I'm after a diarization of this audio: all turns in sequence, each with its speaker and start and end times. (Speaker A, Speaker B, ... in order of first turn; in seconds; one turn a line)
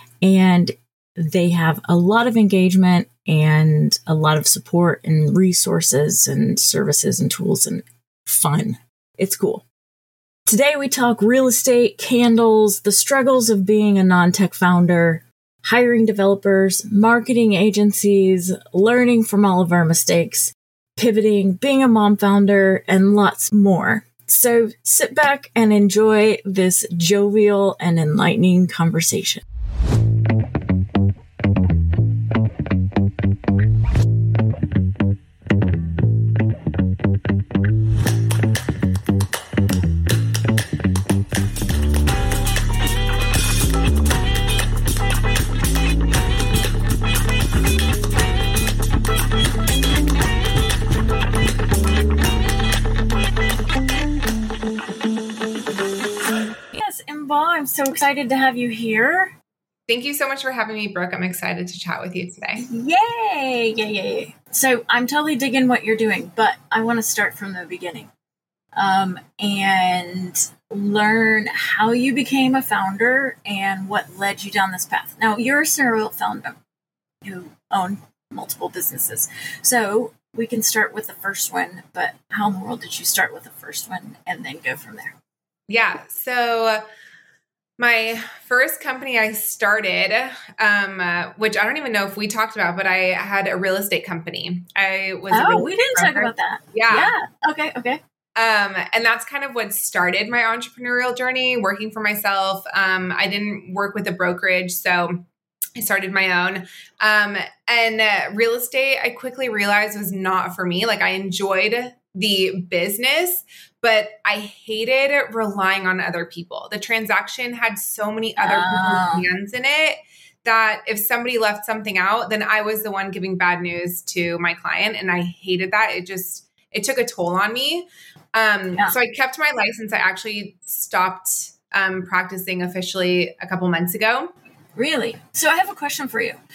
Speaker A: 0.2-9.6
Speaker A: 10.5-29.4
Speaker A: 56.7-59.3
Speaker B: 59.9-62.7
Speaker A: 62.6-68.1
Speaker A: 68.8-76.6
Speaker A: 77.2-85.2
Speaker B: 85.7-86.8
Speaker B: 87.8-97.1
Speaker A: 95.3-98.0
Speaker B: 98.3-105.2
Speaker B: 105.8-134.3
Speaker A: 118.4-119.3
Speaker A: 134.8-136.4